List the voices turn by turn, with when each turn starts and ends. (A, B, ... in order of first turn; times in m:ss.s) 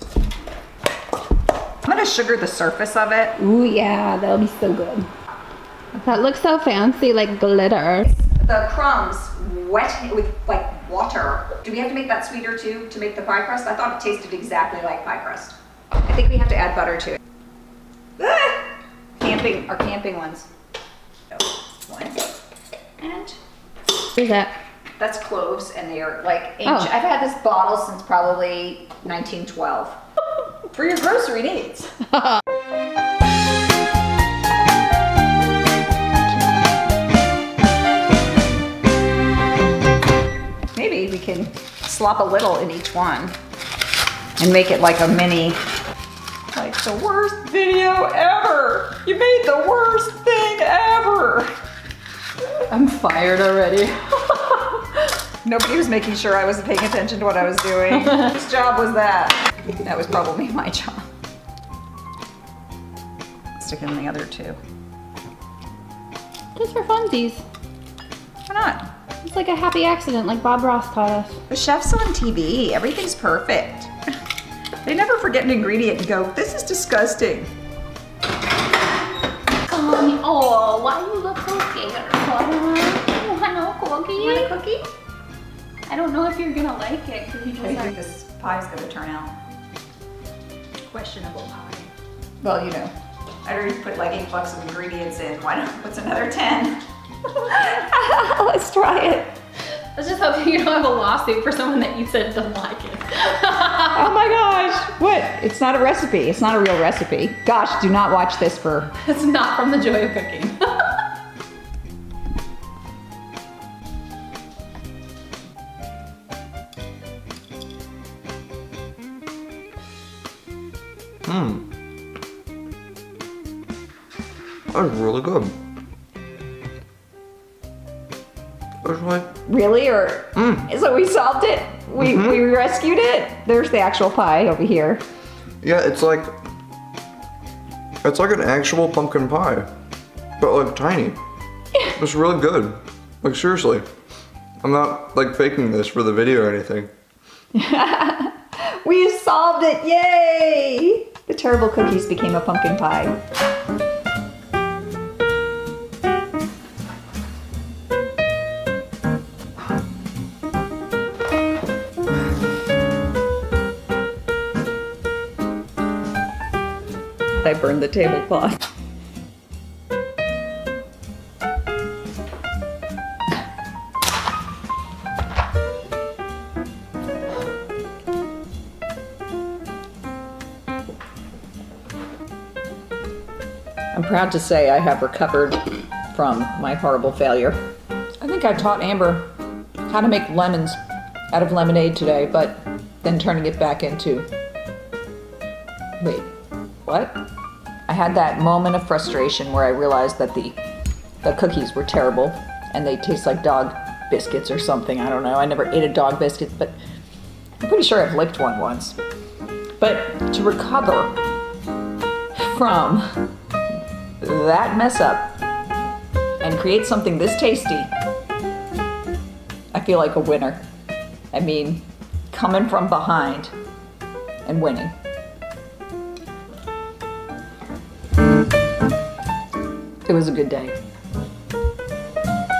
0:01.8-0:03.4 A
0:03.4-0:05.1 B
0:05.9-0:08.1 B
0:08.0-0:17.2 A
0:18.2-0:20.5 A
0:21.3-0:22.3 A
0:23.0-0:23.4 A
0:24.1-0:24.6 B
0:25.0-0:30.0 A
0:30.7-0:31.9 A
0:40.7-0:43.4 A
0:44.4-0:45.6 A
0:46.5-0:51.5 A
0:52.7-0:55.0 B
0:55.4-1:01.0 A
0:57.9-0:58.3 B
1:03.6-1:04.6 A
1:06.6-1:07.4 B
1:08.5-1:08.9 A
1:09.2-1:11.4 B
1:11.5-1:13.9 A
1:14.8-1:17.5 A
1:19.6-1:24.5 B
1:24.1-1:24.9 A
1:25.9-1:28.0 B
1:27.5-1:29.3 A
1:30.9-1:31.9 B
1:32.4-1:32.9 A
1:33.4-1:36.8 A
1:37.3-1:39.3 A
1:39.9-1:44.1 B
1:43.9-1:48.9 A
1:49.0-1:51.0 B
2:01.2-2:01.6 C
2:04.7-2:05.5 C
2:08.8-2:09.3 C
2:09.4-2:15.0 A
2:10.4-2:10.6 C
2:12.0-2:12.4 C
2:15.6-2:16.3 C
2:18.0-2:19.7 C
2:20.4-2:21.2 C
2:21.9-2:23.8 C
2:24.6-2:26.9 C
2:27.5-2:33.2 A
2:47.4-2:48.6 A
3:03.9-3:07.6 A
3:08.2-3:09.3 A
3:09.8-3:10.8 A
3:11.3-3:14.3 A
3:16.0-3:16.3 A
3:16.8-3:17.2 A
3:17.9-3:20.6 A
3:21.2-3:26.7 A
3:27.6-3:29.0 A
3:29.8-3:31.2 A
3:32.4-3:33.3 A
3:34.2-3:35.4 A
3:36.4-3:37.9 A
3:39.7-3:40.6 A
3:41.3-3:43.5 A
3:44.4-3:44.9 A
3:50.0-3:50.7 A